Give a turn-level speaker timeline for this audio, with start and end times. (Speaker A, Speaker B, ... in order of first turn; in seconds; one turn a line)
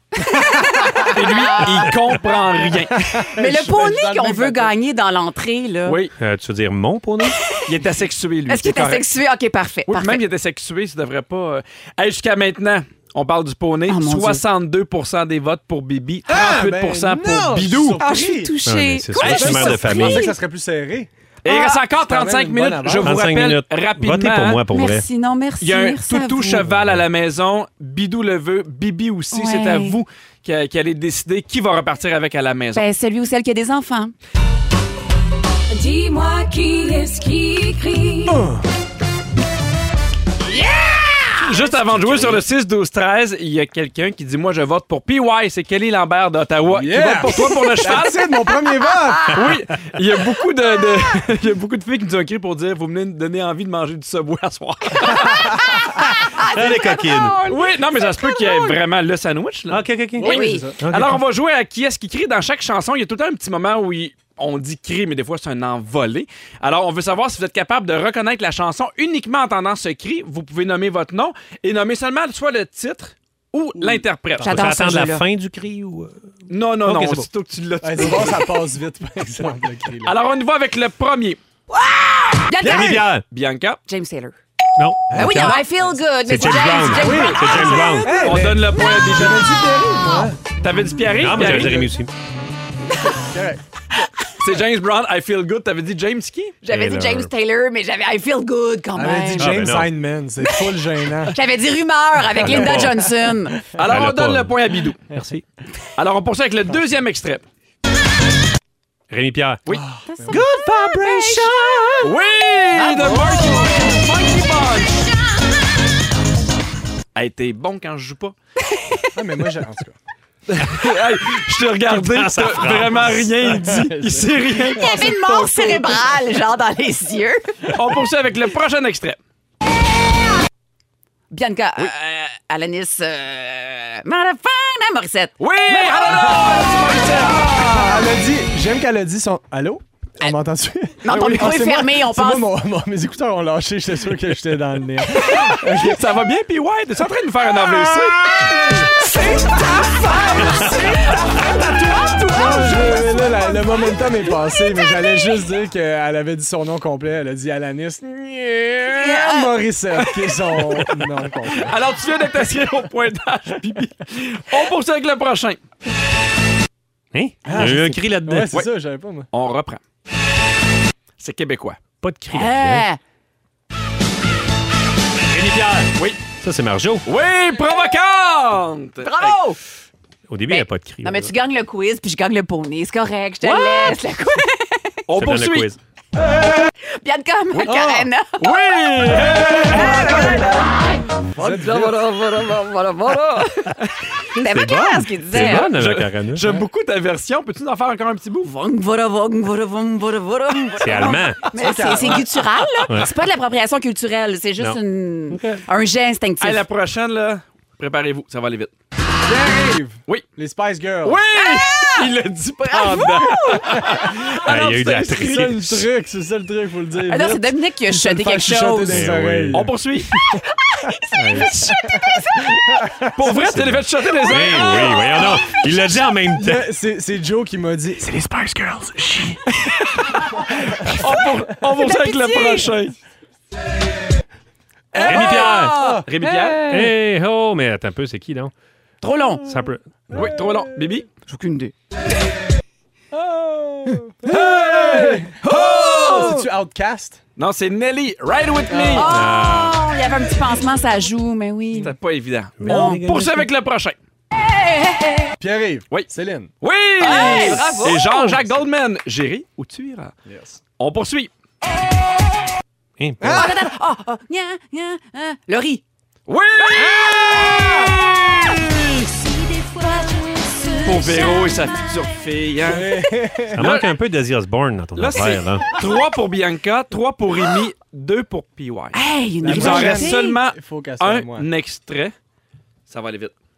Speaker A: 0.2-2.2
Speaker B: 1.1-3.1
Speaker C: 3.1-4.7
Speaker A: 3.3-6.0
Speaker B: 5.8-6.1
Speaker D: 6.2-7.4
Speaker B: 7.7-9.0
Speaker A: 8.5-10.2
Speaker B: 9.9-18.0
Speaker A: 13.9-14.4
Speaker C: 16.3-18.5
Speaker A: 18.0-20.3
Speaker D: 18.6-20.3
Speaker B: 19.2-19.8
Speaker C: 19.2-21.1
Speaker B: 21.4-24.6
Speaker A: 21.4-21.8
Speaker C: 21.9-23.2
Speaker D: 23.0-25.1
Speaker A: 24.7-26.6
Speaker B: 25.6-32.8
Speaker D: 26.6-27.0
Speaker A: 29.3-30.0
Speaker A: 32.7-34.1
Speaker E: 35.7-38.4
Speaker C: 38.3-38.6
Speaker A: 40.5-41.4
Speaker B: 41.4-48.4
Speaker D: 42.0-42.3
Speaker C: 46.7-49.4
Speaker B: 49.3-55.4
Speaker C: 55.2-55.6
Speaker A: 56.0-58.7
Speaker D: 56.4-57.4
Speaker B: 57.5-74.7
Speaker D: 59.7-61.2
Speaker C: 60.2-60.8
Speaker A: 60.2-60.7
Speaker A: 74.4-75.2
Speaker D: 74.4-76.3
Speaker B: 76.5-78.6
Speaker C: 76.9-77.2
Speaker C: 77.8-80.1
Speaker B: 80.0-81.4
Speaker A: 81.7-83.0
Speaker C: 82.6-83.1
Speaker D: 82.6-83.2
Speaker B: 83.3-83.8
Speaker A: 83.9-84.3
Speaker D: 84.8-88.3
Speaker A: 85.1-88.8
Speaker C: 85.2-85.6
Speaker C: 87.0-90.4
Speaker B: 88.1-89.5
Speaker A: 89.9-90.3
Speaker B: 90.6-91.9
Speaker D: 91.1-92.1
Speaker C: 91.3-91.9
Speaker C: 93.1-93.6
Speaker B: 94.4-96.6
Speaker A: 96.6-99.6
Speaker D: 96.7-97.3
Speaker C: 99.0-101.3
Speaker D: 99.3-99.9
Speaker A: 100.4-103.6
Speaker D: 102.3-103.0
Speaker C: 102.5-102.8
Speaker D: 103.7-104.6
Speaker B: 103.7-105.0
Speaker D: 105.1-105.4
Speaker B: 106.0-107.4
Speaker D: 109.1-109.6
Speaker C: 109.7-111.5
Speaker A: 110.1-112.1
Speaker B: 112.0-115.1
Speaker A: 112.7-113.8
Speaker B: 117.1-118.3
Speaker A: 118.7-119.0
Speaker C: 119.1-120.0
Speaker B: 120.5-125.1
Speaker D: 121.8-123.4
Speaker C: 123.4-126.0
Speaker A: 124.7-127.7
Speaker B: 127.7-129.2
Speaker A: 131.3-136.7
Speaker B: 135.4-137.9
Speaker A: 137.2-137.9
Speaker C: 137.7-146.1
Speaker A: 141.0-142.5
Speaker B: 145.2-148.5
Speaker C: 148.3-149.7
Speaker A: 149.0-151.0
Speaker C: 150.3-161.7
Speaker A: 151.9-153.8
Speaker B: 152.5-153.0
Speaker A: 158.9-159.6
Speaker B: 160.5-165.6
Speaker D: 167.1-168.5
Speaker C: 167.4-169.3
Speaker B: 169.3-169.8
Speaker B: 171.2-171.8
Speaker D: 172.0-172.8
Speaker A: 172.3-173.0
Speaker D: 175.3-177.1
Speaker B: 177.0-179.3
Speaker A: 179.0-179.6
Speaker D: 180.3-181.3
Speaker A: 180.5-185.0
Speaker B: 183.4-183.9
Speaker B: 185.1-185.7
Speaker D: 185.1-185.8
Speaker A: 186.8-188.5
Speaker B: 187.5-190.9
Speaker C: 187.7-188.0
Speaker C: 189.2-190.2
Speaker A: 189.6-193.8
Speaker C: 191.4-192.0
Speaker D: 194.3-196.5
Speaker A: 194.3-195.7
Speaker B: 195.3-198.5
Speaker A: 198.4-206.6
Speaker D: 200.7-201.4
Speaker C: 201.5-202.4
Speaker B: 201.7-202.2
Speaker D: 205.3-205.6
Speaker B: 206.4-208.7
Speaker C: 209.2-211.2
Speaker B: 211.0-215.8
Speaker A: 211.3-212.1
Speaker A: 212.6-213.7
Speaker D: 214.4-215.9
Speaker C: 215.3-220.4
Speaker A: 217.1-219.1
Speaker D: 218.9-219.7
Speaker B: 219.5-220.1
Speaker A: 220.5-222.8
Speaker D: 221.1-221.7
Speaker C: 222.8-223.4
Speaker B: 223.2-225.1
Speaker D: 223.3-226.7
Speaker A: 224.2-225.7
Speaker C: 226.3-229.8
Speaker C: 230.6-231.2
Speaker B: 230.7-232.9
Speaker A: 231.7-232.7
Speaker B: 234.9-236.7
Speaker C: 235.0-236.8
Speaker D: 235.0-235.8
Speaker D: 236.6-238.5
Speaker A: 239.0-239.5
Speaker D: 239.4-240.3
Speaker B: 240.1-241.1
Speaker C: 240.2-240.5
Speaker A: 241.3-241.7
Speaker C: 243.1-247.2
Speaker B: 244.3-245.2
Speaker A: 244.9-246.5
Speaker B: 246.0-246.2
Speaker B: 247.4-249.1
Speaker C: 248.7-249.1
Speaker A: 248.9-251.9
Speaker D: 249.1-249.8
Speaker B: 251.8-253.9
Speaker D: 252.6-253.5
Speaker A: 252.6-253.0
Speaker A: 254.3-255.4
Speaker C: 255.4-256.5
Speaker B: 256.6-260.1
Speaker A: 257.0-258.4
Speaker C: 257.2-258.2
Speaker C: 260.2-260.6
Speaker B: 260.8-261.3
Speaker D: 263.0-263.6
Speaker C: 263.2-263.6
Speaker A: 263.2-265.8
Speaker B: 266.3-268.9
Speaker C: 266.7-267.9
Speaker A: 266.8-267.9
Speaker A: 269.6-271.7
Speaker B: 270.8-273.0
Speaker C: 272.6-273.6
Speaker D: 273.5-275.7
Speaker B: 273.6-273.9
Speaker B: 274.9-282.1
Speaker A: 278.9-280.4
Speaker C: 279.4-281.5
Speaker B: 282.9-283.3